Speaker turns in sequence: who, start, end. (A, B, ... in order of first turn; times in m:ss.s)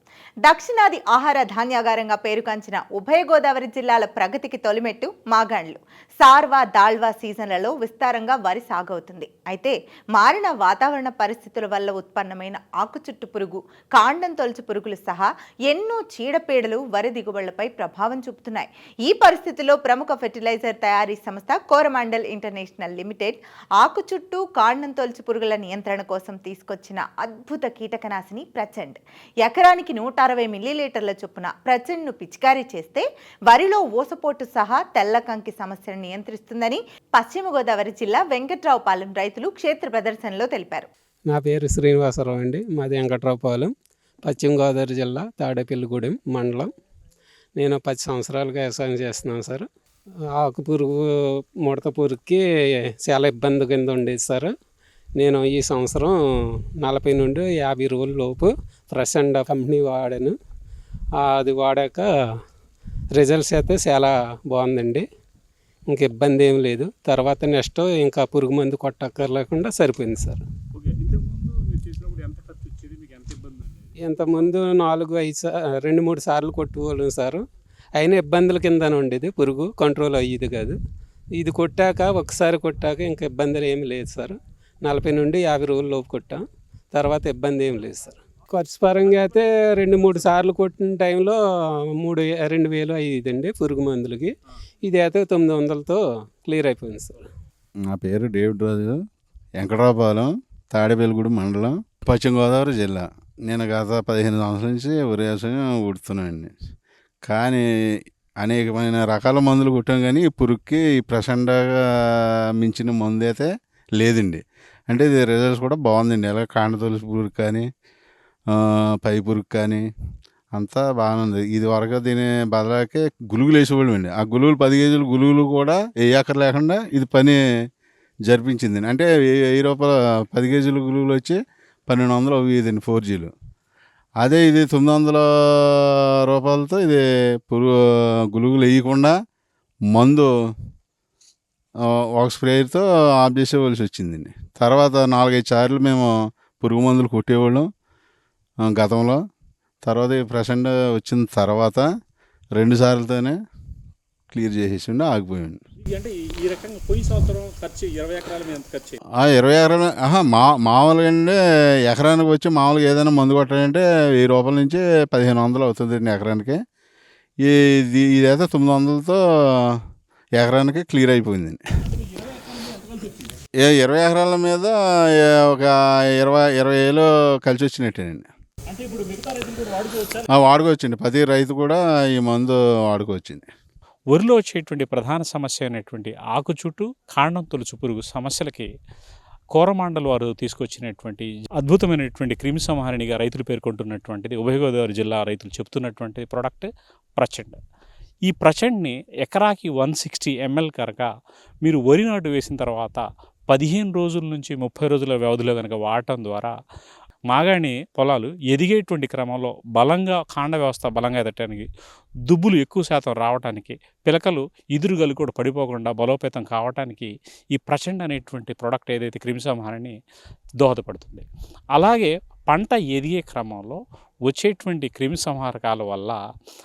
0:00.4-0:40.9 A
0:41.3-0:46.7 B
0:47.6-0:49.7 B
0:50.3-0:54.5 B
0:55.2-1:00.3 B
1:01.2-1:02.1 B
1:03.1-1:05.0 B
1:05.9-1:10.4 B
1:10.7-1:13.9 C
1:14.0-1:17.4 B
1:18.0-1:20.8 B
1:21.3-1:37.3 B
1:37.9-1:39.0 D
1:39.6-1:46.5 D
1:47.3-1:47.6 D
1:48.4-1:57.7 D
1:58.5-1:59.8 D
2:00.5-2:07.4 D
2:08.3-2:13.3 D
2:14.2-2:17.7 D
2:18.3-2:19.1 D
2:19.9-2:20.3 D
2:21.8-2:27.7 D
2:28.6-2:29.2 D
2:29.8-2:31.9 D
2:32.6-2:33.4 D
2:34.3-2:35.6 D
2:35.8-2:39.0 C
2:39.2-2:46.6 D
2:47.4-2:49.8 D
2:50.4-2:51.6 D
2:52.0-2:53.3 C
2:53.6-2:58.3 D
2:58.7-3:00.3 C
3:00.3-3:03.5 D
3:04.1-3:08.7 C
3:09.5-3:17.6 C
3:18.3-3:21.1 C
3:21.6-3:26.5 C
3:27.3-3:31.7 C
3:32.3-3:39.9 C
3:40.6-3:46.2 C